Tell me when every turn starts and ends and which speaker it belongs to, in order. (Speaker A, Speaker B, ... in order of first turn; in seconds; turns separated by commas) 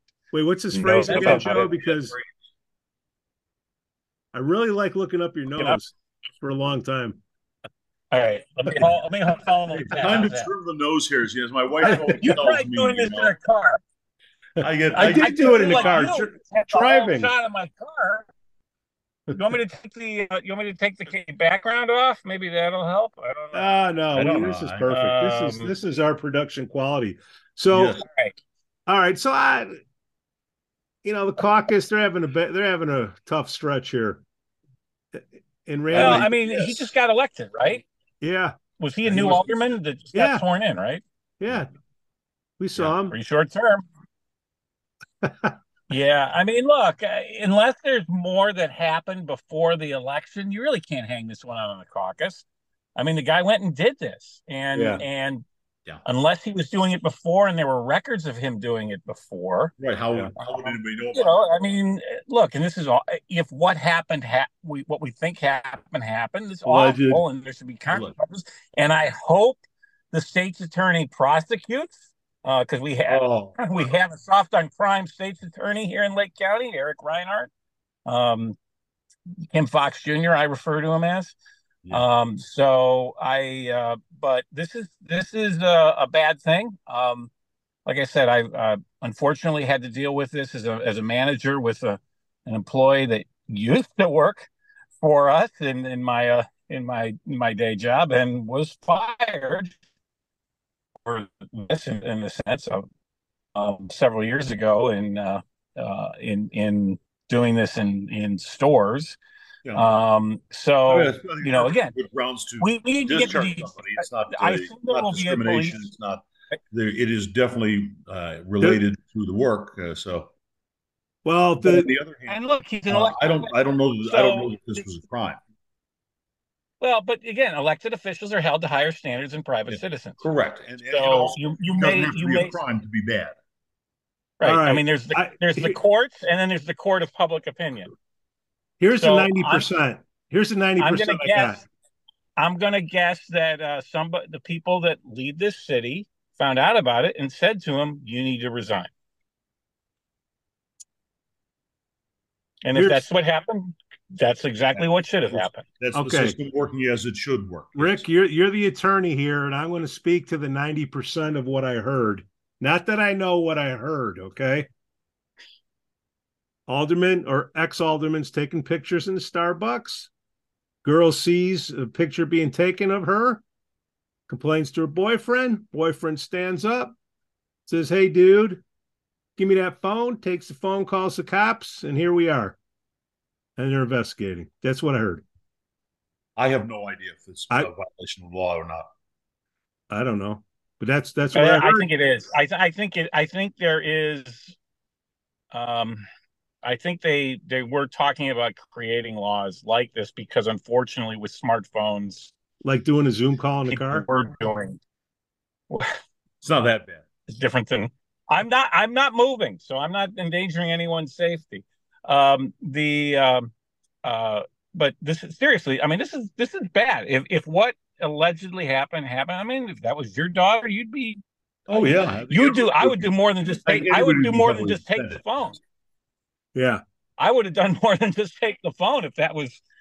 Speaker A: 0.3-2.1, Speaker B: 0.8-1.7, Speaker C: 0.9-1.8, Speaker A: 4.3-7.2, Speaker C: 8.1-10.5, Speaker B: 9.7-13.3, Speaker C: 11.8-13.8, Speaker A: 11.8-12.3, Speaker B: 14.6-16.0, Speaker A: 14.9-17.3, Speaker C: 14.9-18.3, Speaker C: 19.3-23.7, Speaker A: 23.5-28.0, Speaker B: 24.1-24.9, Speaker C: 24.9-25.7, Speaker B: 27.7-28.0, Speaker C: 28.1-28.4, Speaker A: 28.9-29.7, Speaker A: 31.0-34.2, Speaker A: 35.1-36.3, Speaker B: 35.9-36.8, Speaker C: 35.9-37.9, Speaker A: 38.2-38.6, Speaker C: 38.8-41.0, Speaker B: 39.0-39.4, Speaker A: 39.1-39.4, Speaker A: 40.1-40.5, Speaker A: 41.4-41.7, Speaker A: 42.6-43.2, Speaker C: 43.0-43.8, Speaker A: 45.2-45.5, Speaker C: 45.9-55.5, Speaker A: 54.7-55.0, Speaker C: 56.0-59.7, Speaker B: 59.8-61.4, Speaker C: 60.4-77.5, Speaker B: 66.7-67.2, Speaker B: 67.9-68.2, Speaker B: 73.1-73.9, Speaker C: 78.1-78.6, Speaker C: 79.5-81.4, Speaker C: 81.9-87.3, Speaker C: 87.8-94.5, Speaker C: 95.0-99.8, Speaker C: 101.0-102.8, Speaker C: 103.5-109.2, Speaker B: 109.7-109.9, Speaker C: 109.7-111.9, Speaker B: 110.9-120.3, Speaker C: 112.6-115.9, Speaker A: 121.2-121.9, Speaker B: 121.6-125.4, Speaker C: 122.3-124.6, Speaker C: 126.8-130.2, Speaker B: 129.7-133.4, Speaker C: 130.9-132.6, Speaker C: 134.4-137.9, Speaker A: 134.4-135.8, Speaker A: 138.8-141.6, Speaker C: 138.9-139.7, Speaker C: 140.8-141.7, Speaker C: 142.4-148.9, Speaker C: 152.6-155.7, Speaker A: 152.7-153.1, Speaker B: 154.8-158.1, Speaker A: 155.9-156.4, Speaker A: 157.8-164.7, Speaker A: 166.7-170.1, Speaker A: 170.8-173.4, Speaker A: 174.3-176.9, Speaker A: 177.7-178.6, Speaker A: 179.4-182.6, Speaker A: 183.6-185.2, Speaker B: 186.4-188.9, Speaker A: 189.9-191.9, Speaker C: 191.3-194.6, Speaker C: 195.5-196.0, Speaker C: 196.6-202.3, Speaker A: 202.6-204.1, Speaker C: 203.7-204.8, Speaker B: 206.4-207.0, Speaker C: 207.3-213.5, Speaker C: 214.0-225.6, Speaker B: 221.7-225.2, Speaker A: 226.6-226.8, Speaker C: 227.2-229.6